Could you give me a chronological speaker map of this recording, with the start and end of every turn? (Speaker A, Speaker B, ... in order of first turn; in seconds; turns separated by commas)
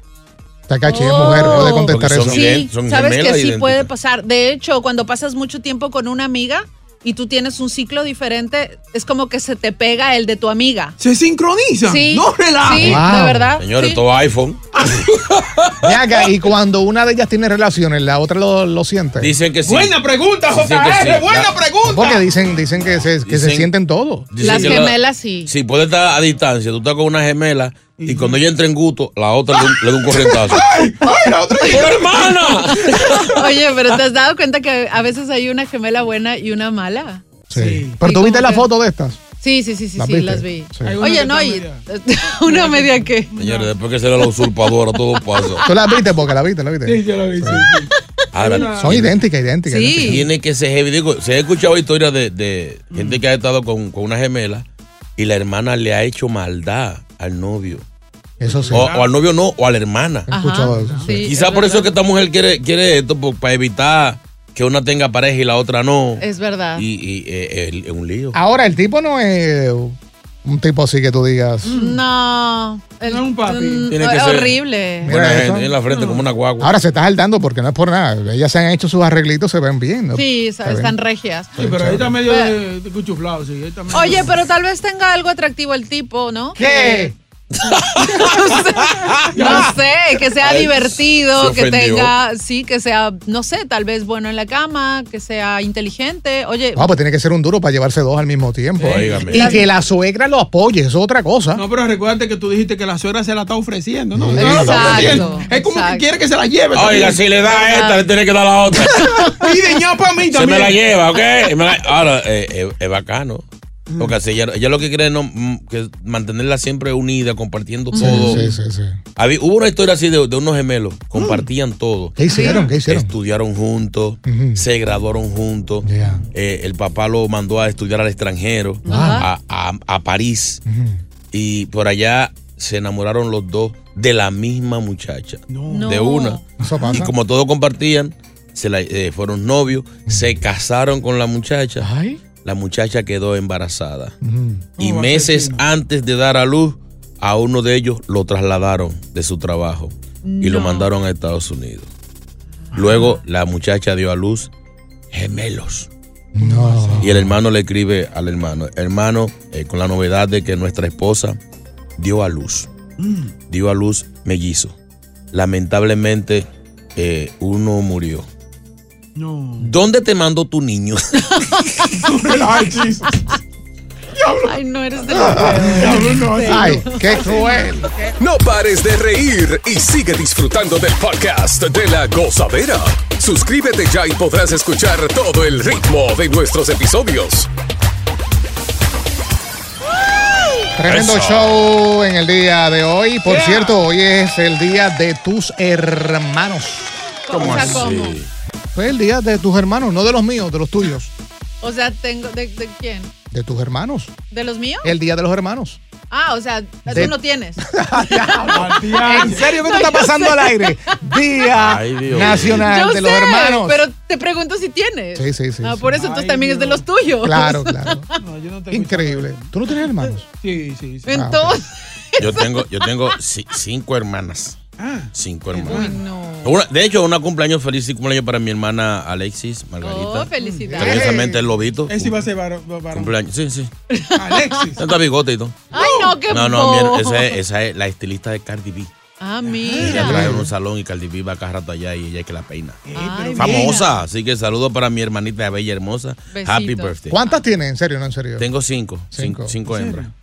Speaker A: 0.7-2.5, Speaker B: 0.8-11.0, Speaker C: 1.4-3.9, Speaker D: 11.0-13.0, Speaker B: 11.8-14.0, Speaker A: 12.7-13.6, Speaker C: 13.6-15.9, Speaker D: 14.8-15.1, Speaker A: 15.8-19.3, Speaker C: 19.2-20.0, Speaker D: 19.6-22.2, Speaker C: 20.5-21.5, Speaker A: 21.9-24.3, Speaker C: 23.2-23.7, Speaker C: 24.3-30.7, Speaker B: 24.4-25.5, Speaker D: 24.4-24.8, Speaker D: 28.0-28.4, Speaker D: 30.1-32.7, Speaker C: 31.7-33.4, Speaker B: 32.9-37.2, Speaker A: 37.5-39.2, Speaker D: 37.5-38.0, Speaker B: 38.0-38.7, Speaker B: 39.4-43.3, Speaker A: 40.0-41.0, Speaker D: 40.8-41.9, Speaker D: 42.4-43.7, Speaker C: 43.4-45.6, Speaker B: 45.2-46.0, Speaker A: 45.6-47.7, Speaker D: 46.8-49.0, Speaker C: 48.3-49.2, Speaker A: 48.8-50.2, Speaker B: 49.7-50.2, Speaker C: 50.0-54.6, Speaker D: 52.9-53.2, Speaker C: 55.2-57.8, Speaker A: 58.4-58.9, Speaker D: 58.4-59.1, Speaker C: 58.7-60.3, Speaker A: 60.3-61.2, Speaker B: 60.3-61.9, Speaker D: 60.7-61.1, Speaker C: 61.2-66.2, Speaker B: 66.2-66.8, Speaker C: 66.8-68.4, Speaker A: 68.3-71.7, Speaker D: 71.6-72.0, Speaker B: 71.6-75.1, Speaker D: 73.0-73.9, Speaker C: 73.9-76.7, Speaker A: 75.0-75.7, Speaker D: 75.9-76.2, Speaker A: 76.6-81.0, Speaker B: 80.1-82.5, Speaker A: 81.6-82.1, Speaker D: 81.6-84.4, Speaker B: 83.9-87.1, Speaker A: 86.5-87.1, Speaker C: 87.6-89.6, Speaker B: 88.0-96.9, Speaker D: 89.3-89.8, Speaker C: 90.4-92.1, Speaker A: 96.7-101.6, Speaker D: 98.8-99.5, Speaker C: 98.8-99.5, Speaker B: 99.3-99.6, Speaker D: 101.5-107.2, Speaker A: 104.1-105.4, Speaker B: 104.3-106.0, Speaker C: 106.7-109.3, Speaker B: 107.5-108.0, Speaker B: 109.0-109.3, Speaker D: 109.2-110.8, Speaker C: 110.3-113.4, Speaker C: 114.0-118.4, Speaker B: 117.9-118.4, Speaker A: 118.0-119.0, Speaker C: 119.2-122.2, Speaker D: 121.1-121.5, Speaker A: 122.2-123.1, Speaker B: 122.3-122.6, Speaker D: 122.4-122.7, Speaker C: 122.8-130.6, Speaker A: 124.2-124.7, Speaker A: 125.8-126.2, Speaker B: 128.9-129.2, Speaker A: 128.9-129.2, Speaker A: 130.7-131.0, Speaker C: 131.3-141.9, Speaker D: 135.5-136.0, Speaker B: 135.7-136.4, Speaker A: 136.6-137.1, Speaker A: 141.8-142.2, Speaker C: 142.4-144.1, Speaker A: 144.2-144.7, Speaker D: 144.8-145.6, Speaker C: 144.8-151.9, Speaker B: 150.2-150.9, Speaker D: 152.7-153.1, Speaker C: 152.7-154.5, Speaker C: 155.1-155.9, Speaker A: 156.3-157.3, Speaker D: 156.4-157.1, Speaker C: 157.0-161.4, Speaker C: 162.0-162.7, Speaker D: 163.0-163.3, Speaker C: 163.5-164.7, Speaker C: 165.3-168.3, Speaker D: 169.2-169.7, Speaker C: 169.6-171.7, Speaker B: 171.3-172.0, Speaker D: 172.0-173.2, Speaker B: 173.1-173.3, Speaker D: 174.1-174.6, Speaker B: 174.4-177.7, Speaker D: 175.1-177.7, Speaker A: 175.1-175.9, Speaker A: 176.4-177.9, Speaker E: 178.2-187.5, Speaker A: 190.8-197.8, Speaker C: 190.9-191.7, Speaker D: 193.3-193.8, Speaker B: 197.3-198.2, Speaker C: 197.3-198.3, Speaker A: 198.7-201.1, Speaker B: 201.6-203.1, Speaker A: 203.3-204.1, Speaker B: 204.3-204.9, Speaker A: 204.8-205.8, Speaker B: 206.1-210.9, Speaker A: 206.8-213.8, Speaker D: 208.5-209.5, Speaker C: 211.6-212.7, Speaker B: 212.4-218.1, Speaker A: 215.1-215.9, Speaker D: 215.9-216.8, Speaker A: 217.2-218.1, Speaker D: 218.2-219.5, Speaker A: 218.7-220.3, Speaker D: 220.4-221.2, Speaker B: 221.1-223.1, Speaker A: 221.1-221.6, Speaker C: 222.2-224.6, Speaker D: 224.8-226.0, Speaker C: 225.1-225.8, Speaker B: 225.7-226.6, Speaker C: 226.4-232.3, Speaker B: 229.8-231.1, Speaker D: 230.4-230.7, Speaker A: 230.7-231.4, Speaker D: 231.9-233.1, Speaker C: 232.9-233.7, Speaker B: 233.9-234.7, Speaker D: 234.2-234.8, Speaker C: 234.8-235.6, Speaker D: 235.7-236.2, Speaker B: 235.7-237.3, Speaker C: 236.3-238.9, Speaker B: 239.2-240.3, Speaker D: 239.4-240.3, Speaker C: 239.8-242.8, Speaker A: 239.9-240.5, Speaker D: 242.8-243.9, Speaker B: 242.9-243.9, Speaker C: 243.3-247.2, Speaker B: 246.3-246.9, Speaker A: 247.1-248.5, Speaker C: 248.4-250.1, Speaker A: 249.1-249.5, Speaker D: 249.7-250.1